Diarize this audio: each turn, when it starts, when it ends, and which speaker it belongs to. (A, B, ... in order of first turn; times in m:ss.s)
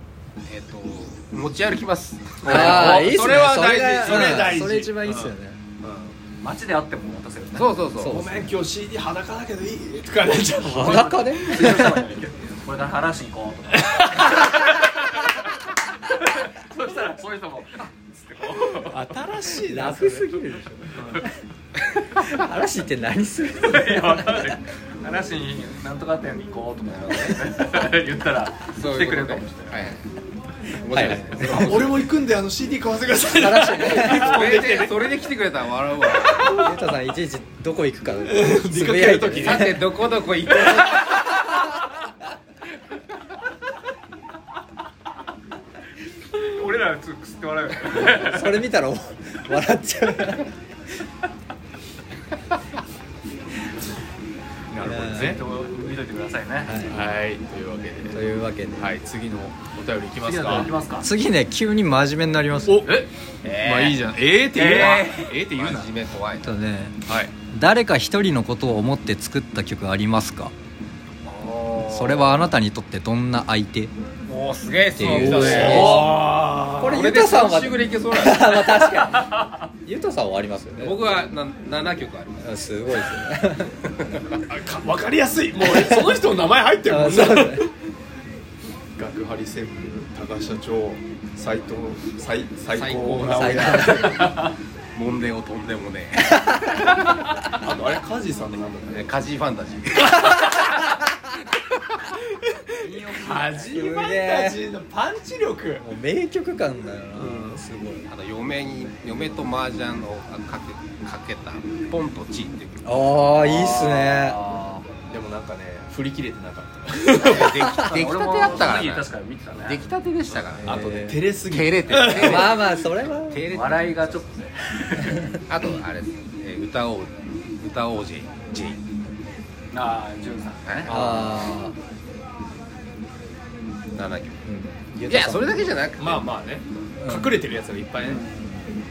0:00.4-0:03.2 A
0:02.4-0:06.2 B
0:02.4-0:05.6 C
0:06.4-0:07.8 D
0:07.5-0:08.2 A
0:08.0-0:08.5 C
0:08.0-0:11.9 B
0:10.6-0:19.1 D
0:10.7-0:12.0 C
0:13.7-0:14.7 B
0:18.8-0:21.2 B
0:19.5-0:21.3 C
0:22.0-0:24.6 C
0:23.6-0:30.0 D
0:26.9-0:27.4 A
0:28.7-0:30.0 A
0:30.8-0:32.0 A
0:30.9-0:31.9 C
0:30.9-0:35.2 B
0:33.3-0:34.5 C
0:33.9-0:36.6 A
0:36.2-0:36.9 B
0:36.5-0:39.7 C
0:38.2-0:39.8 B
0:39.3-0:41.2 A
0:46.3-0:48.5 D
0:48.0-0:50.5 C
0:54.7-0:55.4 B
0:54.8-0:55.4 C
0:55.1-0:56.9 D
0:56.6-0:57.0 C
0:56.8-0:58.2 B
0:58.1-0:58.9 C
0:58.8-1:00.7 B
1:00.2-1:01.1 D
1:00.5-1:02.9 C
1:02.6-1:05.9 B
1:02.8-1:03.1 D
1:03.4-1:04.0 A
1:04.5-1:05.8 D
1:05.5-1:06.5 A
1:06.4-1:07.0 C
1:07.0-1:07.3 B
1:07.5-1:10.5 C
1:11.2-1:12.4 A
1:11.8-1:13.9 C
1:14.3-1:16.2 A
1:14.9-1:16.2 C
1:15.0-1:17.1 B
1:16.8-1:21.2 C
1:16.8-1:18.8 A
1:18.9-1:19.6 D
1:20.8-1:23.1 A
1:22.4-1:23.7 C
1:23.7-1:24.3 A
1:24.5-1:27.7 B
1:25.6-1:26.2 C
1:26.8-1:27.7 C
1:29.0-1:34.3 B
1:32.7-1:34.4 A
1:33.3-1:34.3 C
1:34.2-1:34.5 D
1:34.9-1:37.2 A
1:36.4-1:36.7 C
1:37.5-1:39.2 B
1:38.9-1:40.4 A
1:42.1-1:42.6 B
1:42.8-1:44.0 D
1:43.1-1:45.9 B
1:43.7-1:44.6 C
1:45.8-1:48.1 C
1:47.1-1:47.6 B
1:48.1-1:53.2 A
1:52.8-1:54.4 C
1:53.4-1:55.0 D
1:55.1-1:57.6 B
1:57.2-2:00.7 A
1:57.9-1:59.8 D
2:00.3-2:02.5 B
2:00.5-2:01.2 C
2:01.5-2:04.2 A
2:02.0-2:03.5 C
2:03.5-2:05.1 D
2:05.0-2:05.3 C
2:05.5-2:08.8 A
2:09.7-2:10.9 D
2:10.6-2:11.0 A
2:10.8-2:11.6 B
2:10.9-2:11.8 C
2:13.9-2:14.4 A
2:14.4-2:15.6 C
2:15.1-2:16.6 A
2:16.0-2:18.2 B
2:17.0-2:17.4 C
2:18.0-2:18.8 D